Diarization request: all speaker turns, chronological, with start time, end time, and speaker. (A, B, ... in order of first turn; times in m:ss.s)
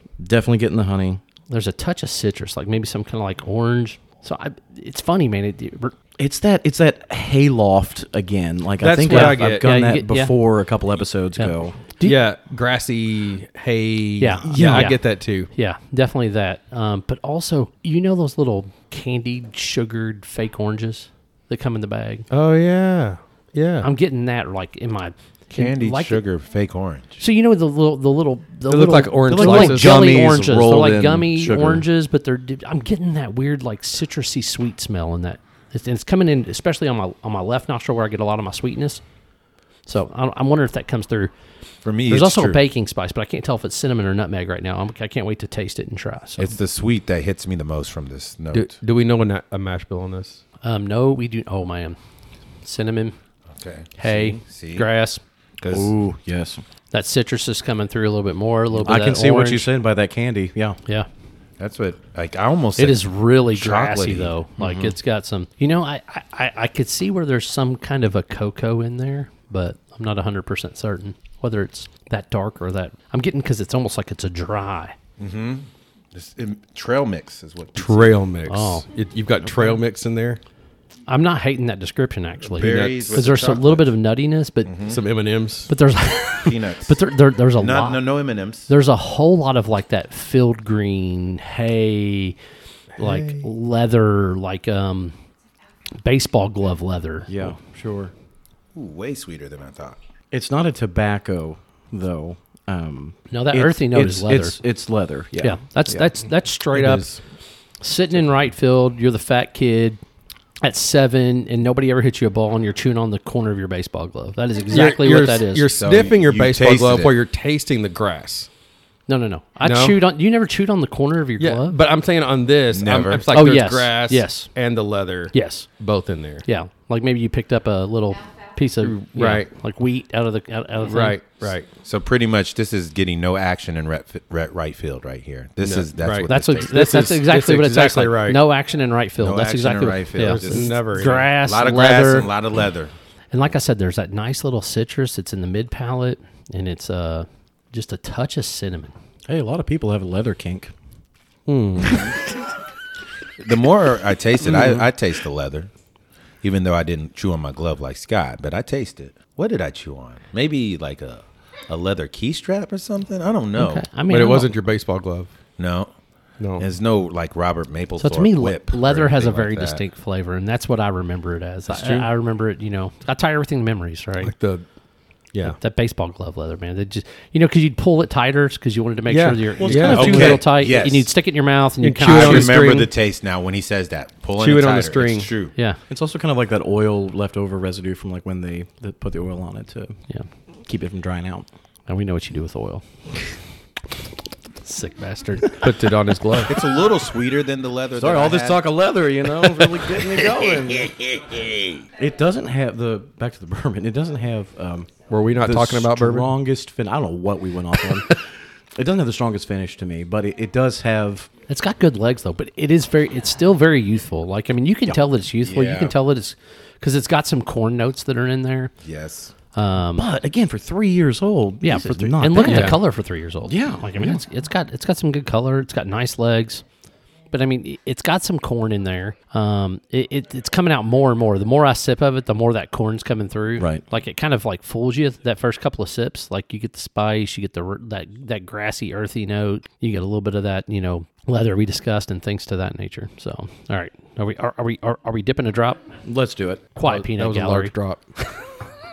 0:00.2-0:01.2 A
0:01.5-0:05.9 B
0:06.2-0:11.8 A
0:08.8-0:09.7 C
0:09.0-0:10.3 B
0:11.4-0:12.2 B
0:12.0-0:15.5 C
0:14.2-0:22.2 B
0:14.4-0:14.9 A
0:22.3-0:23.9 C
0:23.8-0:26.2 B
0:25.5-0:27.2 D
0:27.2-0:39.0 B
0:28.7-0:30.2 C
0:29.3-0:31.8 A
0:39.8-0:41.3 B
0:41.8-0:42.6 D
0:42.0-0:46.5 B
0:46.4-0:48.8 D
0:48.5-0:50.4 C
0:50.6-0:52.0 B
0:52.6-0:53.2 B
0:53.6-0:54.9 D
0:54.0-0:55.2 B
0:55.6-0:55.9 D
0:55.7-0:56.6 A
0:56.9-0:59.7 B
0:58.8-1:00.8 A
1:01.6-1:04.9 D
1:02.8-1:14.9 B
1:15.2-1:18.2 D
1:17.8-1:20.4 C
1:18.5-1:18.8 B
1:21.1-1:24.7 B
1:22.5-1:23.9 D
1:22.6-1:23.1 C
1:24.6-1:25.0 D
1:24.9-1:25.7 C
1:25.7-1:28.0 B
1:26.4-1:27.0 D
1:27.6-1:28.7 D
1:28.7-1:32.4 B
1:33.0-1:35.1 B
1:33.0-1:33.4 C
1:36.0-1:37.6 B
1:37.3-1:38.1 A
1:38.8-1:40.0 D
1:40.3-1:46.1 A
1:43.3-1:44.6 B
1:45.4-1:47.1 B
1:46.7-1:47.2 C
1:47.8-1:50.0 B
1:50.6-1:55.7 B
1:54.7-1:58.5 C
1:55.8-1:57.2 D
1:59.1-2:01.8 B
1:59.6-2:00.0 C
2:01.4-2:06.4 C
2:02.7-2:03.3 D
2:03.3-2:04.5 B
2:05.3-2:05.7 B
2:06.4-2:11.5 B
2:08.8-2:09.5 C
2:10.8-2:11.7 C
2:11.8-2:16.9 D
2:15.6-2:18.4 C
2:16.3-2:22.3 B
2:19.2-2:22.9 D
2:20.2-2:21.3 C
2:23.3-2:28.9 B
2:29.3-2:30.7 A
2:31.5-2:32.0 C
2:33.4-2:35.7 D
2:34.4-2:34.9 A
2:36.4-2:43.8 D
2:43.5-2:44.5 B
2:44.1-2:45.3 C
2:45.6-2:45.9 D
2:46.4-2:46.7 C
2:46.6-2:49.8 D
2:48.0-2:54.3 B
2:51.7-2:52.1 C
2:54.2-2:54.6 C
2:55.4-3:02.5 B
2:59.1-3:00.4 C
2:59.6-3:00.5 A
2:59.8-3:01.1 D
3:01.8-3:02.9 C
3:02.0-3:05.5 D
3:02.2-3:02.6 A
3:04.4-3:05.3 C
3:05.9-3:10.0 A
3:10.7-3:11.5 A
3:11.9-3:12.8 B
3:14.6-3:15.7 B
3:15.6-3:16.5 C
3:16.5-3:18.7 D
3:18.0-3:20.9 A
3:19.6-3:21.8 D
3:22.0-3:31.3 A
3:25.1-3:26.3 C
3:31.5-3:38.7 B
3:34.9-3:36.0 D
3:38.8-3:39.3 D
3:39.5-3:40.1 B
3:40.0-3:42.8 A
3:41.6-3:46.6 B
3:42.4-3:42.8 C
3:43.5-3:44.2 A
3:47.3-4:05.8 B
3:53.6-3:53.8 A
4:06.0-4:06.6 A
4:06.7-4:07.7 B
4:06.8-4:08.5 C